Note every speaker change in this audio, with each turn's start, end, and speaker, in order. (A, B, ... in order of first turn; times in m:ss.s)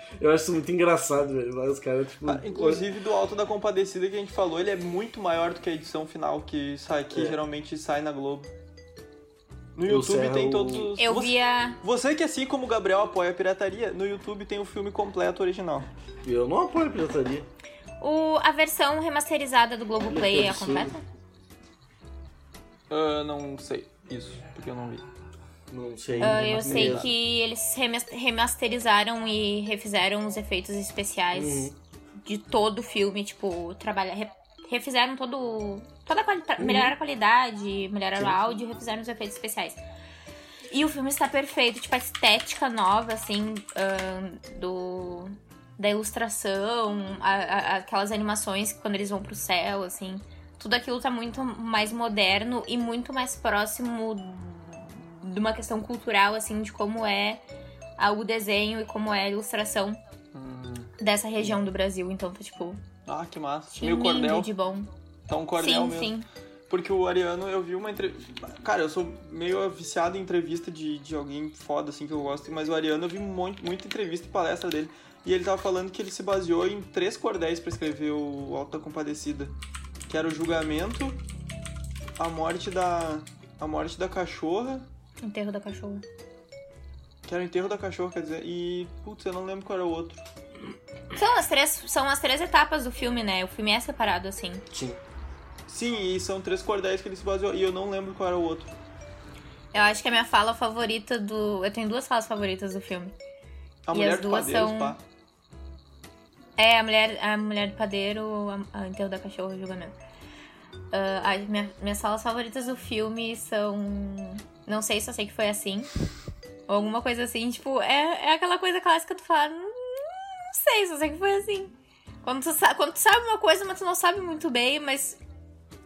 0:00.2-0:02.9 A
0:02.2-0:08.5 B
0:07.1-0:07.4 A
0:09.8-0:15.9 B
0:09.9-0:11.0 A
0:11.0-0:11.8 C
0:16.2-0:17.5 A
0:18.0-0:21.0 C
0:20.0-0:21.0 A
0:22.9-0:25.1 B
0:25.7-0:27.1 A
0:26.2-0:27.1 B
0:26.2-0:31.7 C
0:31.3-0:31.8 A
0:32.2-0:39.8 C
0:36.6-0:37.0 A
0:40.7-0:57.4 C
0:58.0-1:00.0 C
1:00.3-1:00.9 B
1:01.0-1:02.8 C
1:03.1-1:04.5 B
1:03.7-1:04.9 C
1:05.3-1:06.1 B
1:05.6-1:06.3 C
1:06.7-1:19.6 B
1:20.1-1:21.2 B
1:22.2-1:24.9 B
1:25.2-1:26.0 C
1:27.2-1:30.2 B
1:31.1-1:34.6 C
1:34.7-1:35.0 A
1:35.7-1:38.7 B
1:39.7-1:43.1 C
1:43.9-1:45.0 B
1:43.9-1:45.0 C
1:46.6-1:50.0 C
1:50.9-1:55.9 C
1:56.7-2:05.2 C